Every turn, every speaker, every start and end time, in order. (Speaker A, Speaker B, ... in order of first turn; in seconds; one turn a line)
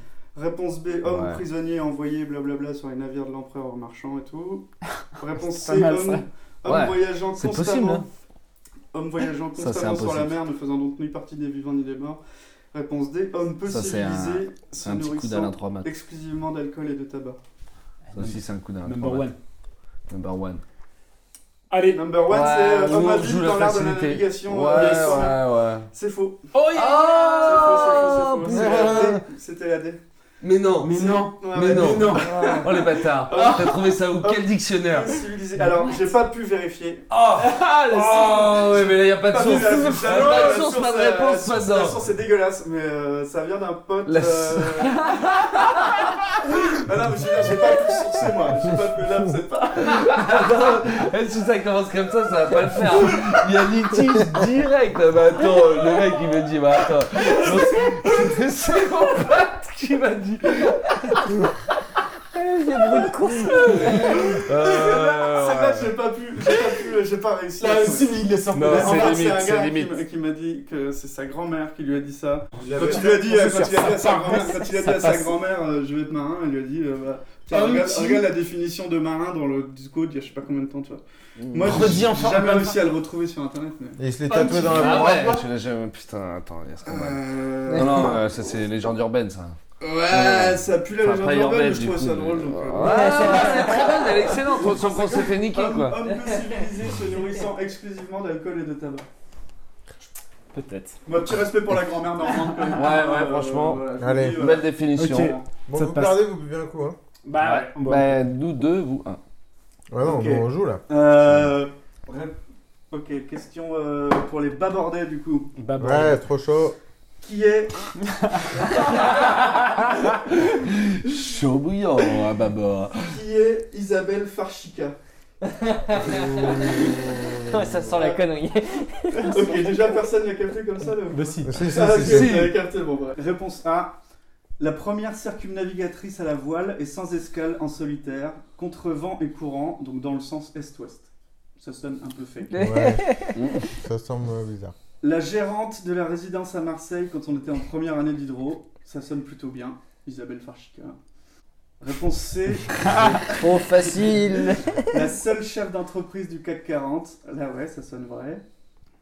Speaker A: 0.3-8.1
Speaker B: 1.0-1.4
Speaker C: 5.5-6.2
Speaker B: 6.6-8.0
Speaker A: 8.9-12.2
Speaker B: 9.6-10.4
Speaker A: 12.7-17.4
Speaker B: 13.7-15.9
Speaker C: 18.1-19.4
Speaker B: 18.1-19.3
Speaker B: 20.1-20.6
Speaker C: 21.7-22.2
Speaker A: 21.9-25.4
Speaker B: 22.3-25.9
Speaker C: 24.7-25.3
Speaker A: 25.9-26.5
Speaker C: 26.5-28.6
Speaker B: 26.7-29.0
Speaker A: 27.3-30.0
Speaker D: 28.5-29.2
Speaker B: 30.4-35.2
Speaker C: 30.8-32.5
Speaker A: 30.9-45.3
Speaker E: 32.2-32.7
Speaker B: 37.1-42.0
Speaker C: 39.6-40.5
Speaker B: 44.0-46.1
Speaker A: 46.6-50.4
Speaker B: 49.9-61.5
Speaker A: 57.2-58.4
Speaker E: 62.3-64.2
Speaker B: 63.6-65.9
Speaker A: 63.9-85.4
Speaker C: 67.6-69.4
Speaker B: 68.5-70.0
Speaker D: 72.6-73.1
Speaker C: 72.7-75.4
Speaker C: 77.5-78.3
Speaker B: 81.4-82.1
Speaker C: 81.5-82.9
Speaker D: 84.0-85.3
Speaker B: 84.6-89.6
Speaker A: 86.8-88.2
Speaker E: 87.7-88.1
Speaker A: 89.8-99.0
Speaker B: 90.1-96.0
Speaker E: 92.8-93.9
Speaker C: 100.5-101.0
Speaker A: 101.0-105.4
Speaker B: 102.7-103.8
Speaker D: 104.0-104.4
Speaker B: 104.4-105.4
Speaker C: 104.9-106.2
Speaker D: 105.7-107.0
Speaker C: 107.2-108.1
Speaker B: 107.4-109.2
Speaker D: 109.9-110.8
Speaker A: 110.0-112.4
Speaker A: 112.9-115.5
Speaker C: 115.5-116.2
Speaker D: 115.8-116.8
Speaker A: 117.2-117.9
Speaker A: 118.5-119.3
Speaker B: 119.2-123.2
Speaker A: 123.0-125.0
Speaker E: 125.5-126.9
Speaker D: 126.1-127.0
Speaker E: 127.5-129.4
Speaker A: 127.9-128.2
Speaker A: 129.2-134.0
Speaker C: 131.1-131.9
Speaker D: 131.4-132.5
Speaker B: 131.9-132.6
Speaker A: 134.6-142.6
Speaker E: 142.5-143.4
Speaker D: 142.6-144.7
Speaker B: 143.3-143.6
Speaker A: 145.0-151.0
Speaker A: 151.8-153.3
Speaker E: 153.3-154.9
Speaker A: 154.9-158.4